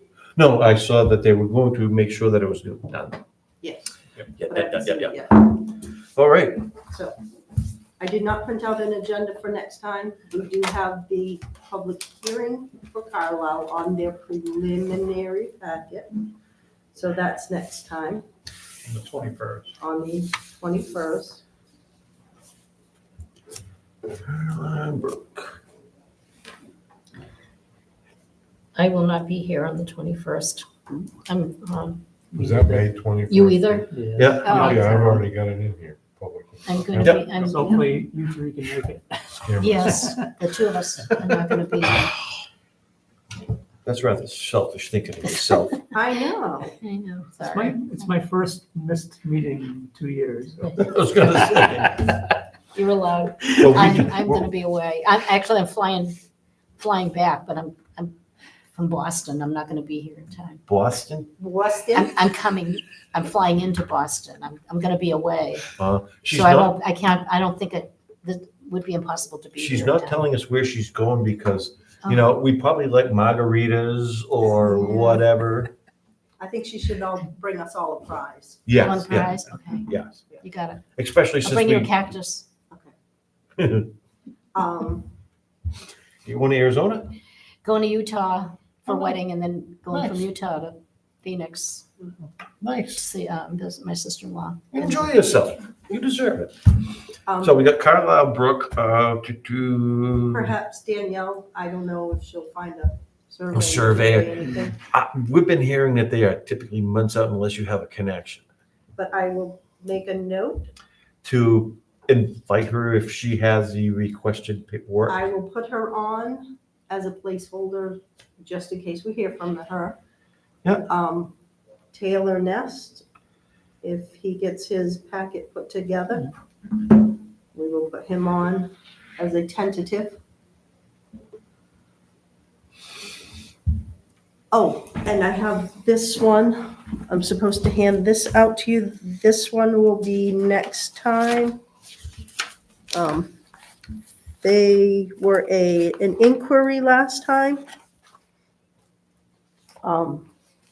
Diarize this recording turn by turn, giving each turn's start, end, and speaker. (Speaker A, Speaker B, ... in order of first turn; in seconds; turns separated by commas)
Speaker A: 0.3-3.2, Speaker B: 3.6-5.5, Speaker A: 4.3-6.7, Speaker B: 6.9-7.2, Speaker B: 8.0-16.2, Speaker B: 16.9-18.2, Speaker B: 19.8-21.4, Speaker A: 24.2-25.6, Speaker C: 28.8-32.0, Speaker D: 32.3-33.0, Speaker E: 32.4-37.3, Speaker C: 33.3-35.3, Speaker D: 33.9-35.2, Speaker A: 34.1-35.1, Speaker C: 36.6-37.8, Speaker A: 37.0-37.2, Speaker D: 37.4-40.1, Speaker B: 37.6-37.9, Speaker E: 39.4-40.1, Speaker C: 39.6-42.1, Speaker A: 43.9-45.8, Speaker B: 45.9-46.7, Speaker C: 46.8-48.0, Speaker D: 47.4-50.9, Speaker A: 50.8-52.2, Speaker C: 52.7-56.1, Speaker A: 53.5-54.5, Speaker C: 56.8-58.1, Speaker C: 58.7-60.6, Speaker A: 60.7-61.3, Speaker B: 61.4-62.1, Speaker C: 61.9-65.7, Speaker A: 65.8-66.7, Speaker C: 66.3-70.2, Speaker A: 69.5-75.7, Speaker C: 72.0-72.3, Speaker C: 74.9-75.2, Speaker B: 76.4-78.7, Speaker A: 78.7-80.2, Speaker C: 78.8-79.9, Speaker C: 80.4-80.8, Speaker A: 81.0-81.9, Speaker C: 81.4-82.4, Speaker A: 83.6-83.9, Speaker B: 84.5-85.1, Speaker A: 86.2-87.1, Speaker C: 87.6-91.9, Speaker A: 88.9-89.2, Speaker A: 89.9-90.3, Speaker A: 92.6-93.0, Speaker C: 92.9-95.1, Speaker A: 94.7-100.5, Speaker B: 97.3-97.6, Speaker B: 100.3-104.8, Speaker A: 103.5-108.4, Speaker B: 109.0-110.7, Speaker A: 111.2-115.2, Speaker B: 115.1-120.0, Speaker B: 120.8-121.3, Speaker B: 121.9-123.0, Speaker B: 123.8-130.2, Speaker B: 134.5-141.6, Speaker B: 142.9-143.3, Speaker B: 144.4-147.6, Speaker B: 149.8-150.3